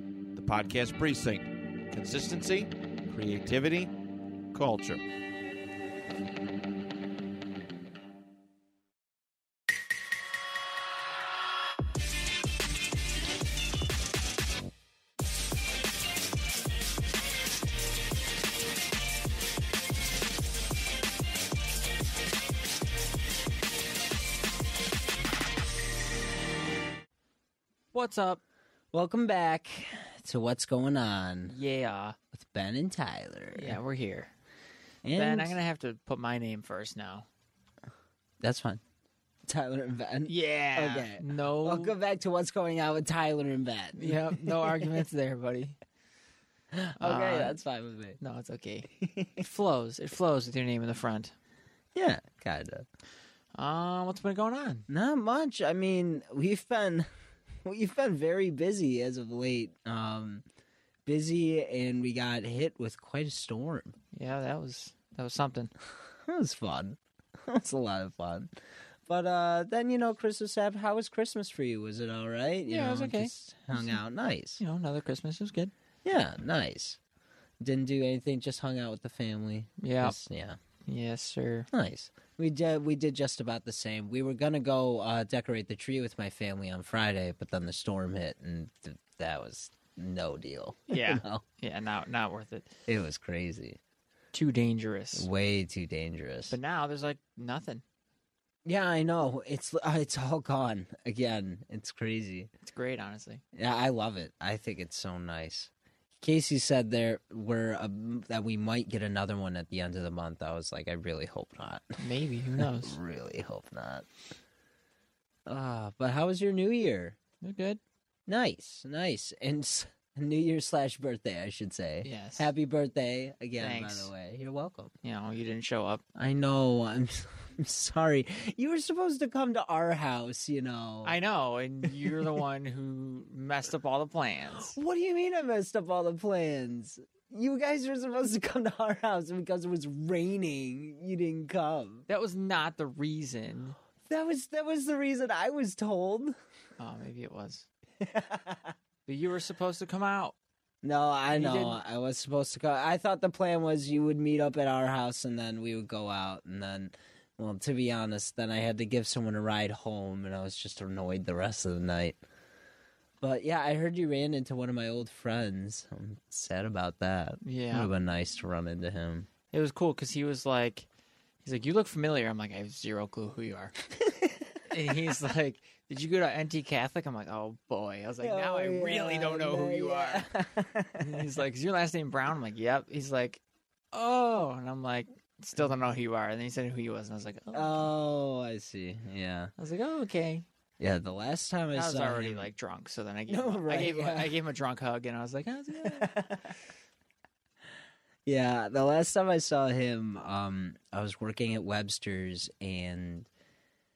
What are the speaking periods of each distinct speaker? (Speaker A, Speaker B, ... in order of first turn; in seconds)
Speaker A: 0.3-3.9, 4.5-5.0
Speaker B: 27.9-28.4, 31.5-32.2, 33.5-34.3, 35.2-37.3, 40.3-42.0, 44.0-45.8, 47.0-47.6, 48.2-51.3, 53.5-54.9, 64.1-65.7, 72.7-74.0, 74.6-75.7, 79.8-80.2, 80.9-81.7, 90.9-92.7, 94.3-95.3, 96.5-97.8, 102.6-103.4, 112.0-113.0, 117.4-117.8, 122.0-122.5, 123.6-124.1, 125.0-126.0, 131.0-134.8, 142.1-143.8, 146.8-147.7, 149.1-150.3, 151.3-151.8, 167.4-167.9, 169.5-170.9, 171.4-173.8, 174.7-180.3, 181.0-183.4, 183.9-187.9, 189.6-190.5, 191.7-196.1
Speaker C: 28.9-31.5, 32.3-33.8, 35.0-35.6, 38.4-38.8, 39.5-45.0, 46.7-48.2, 48.9-49.4, 52.0-52.9, 54.9-57.1, 57.6-60.4, 61.1-64.0, 66.2-68.5, 69.1-74.6, 76.0-77.0, 77.6-80.6, 81.7-91.4, 92.9-93.8, 95.2-96.6, 98.7-102.5, 103.5-112.0, 112.6-114.1, 115.5-117.2, 118.3-124.9, 126.2-131.2, 134.7-142.1, 144.1-146.3, 148.0-148.7, 150.8-162.2, 163.2-169.3, 174.0-174.5, 178.2-181.2, 187.5-189.5, 190.8-192.5, 193.3-194.3, 195.8-196.5, 198.3-203.3